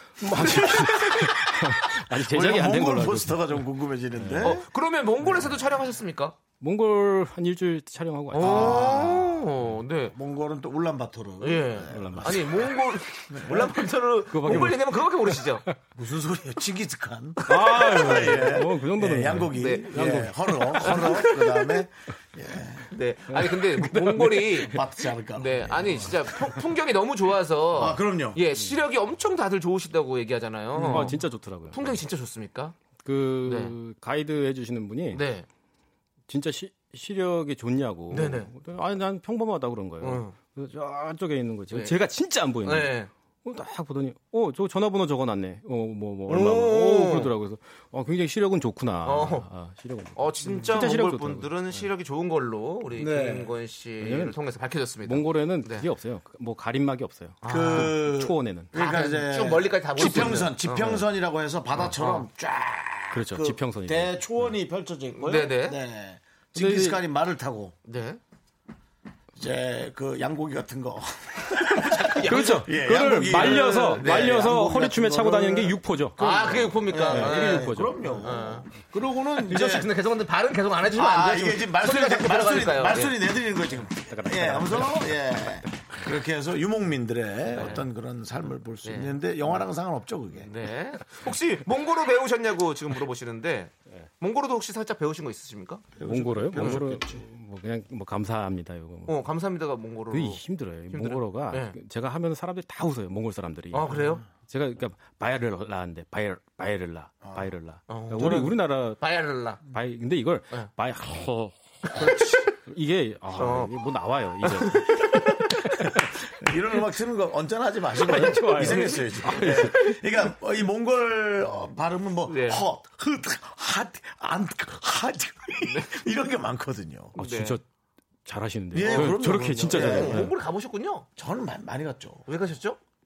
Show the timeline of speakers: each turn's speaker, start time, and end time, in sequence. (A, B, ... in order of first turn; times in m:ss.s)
0:00.2-0:04.6 A
0:00.3-0:01.1 B
0:01.2-0:04.6 C
0:04.4-0:06.4 B
0:05.2-0:05.6 A
0:06.6-0:09.2 A
0:08.3-0:10.1 B
0:08.4-0:09.3 C
0:10.1-0:12.6 C
0:11.4-0:15.6 B
0:11.9-0:12.8 A
0:13.3-0:13.7 C
0:14.3-0:15.7 A
0:15.9-0:22.9 C
0:17.4-0:18.5 B
0:17.4-0:21.2 A
0:19.5-0:21.8 B
0:22.9-0:24.8 B
0:23.3-0:24.7 A
0:24.5-0:26.2 C
0:25.3-0:31.2 B
0:27.7-0:28.4 C
0:30.8-0:31.2 C
0:30.8-0:32.0 A
0:31.7-0:32.8 B
0:33.0-0:35.2 A
0:33.4-0:33.7 B
0:35.1-0:35.5 B
0:36.3-0:51.9 A
0:38.1-0:38.5 B
0:40.0-0:40.4 B
0:41.7-0:42.0 B
0:42.6-0:43.1 B
0:46.3-0:47.3 B
0:49.0-0:49.5 B
0:50.1-0:55.8 B
0:50.5-0:50.8 C
0:53.0-0:53.5 C
0:54.0-0:54.4 A
0:55.0-0:58.7 A
0:57.4-0:58.0 B
0:57.5-1:07.7 C
0:58.7-1:01.0 B
1:01.7-1:02.2 B
1:03.1-1:04.5 A
1:05.2-1:05.8 B
1:06.6-1:07.0 A
1:07.8-1:08.2 B
1:09.4-1:19.9 C
1:11.7-1:14.5 B
1:12.1-1:18.4 A
1:16.2-1:18.7 B
1:19.4-1:23.2 B
1:20.8-1:30.5 C
1:24.1-1:25.8 A
1:27.5-1:27.8 B
1:28.8-1:29.2 B
1:30.3-1:35.9 B
1:36.0-1:37.2 C
1:36.0-1:39.2 A
1:36.5-1:36.8 B
1:39.1-1:41.8 B
1:40.1-1:49.1 A
1:43.7-1:44.2 B
1:47.2-1:47.5 C
1:47.9-1:49.6 B
1:48.2-1:48.4 C
1:49.6-1:56.2 A
1:51.8-1:52.5 B
1:53.3-1:53.7 B
1:54.4-1:55.3 B
1:56.4-2:07.1 C
1:58.0-1:59.9 A
1:58.6-2:00.0 B
2:02.3-2:02.6 B
2:05.6-2:05.9 B
2:07.1-2:07.6 A
2:07.2-2:07.6 B
2:08.2-2:10.3 A
2:08.7-2:10.2 C
2:08.8-2:11.0 B
2:11.2-2:12.2 C
2:12.2-2:12.8 B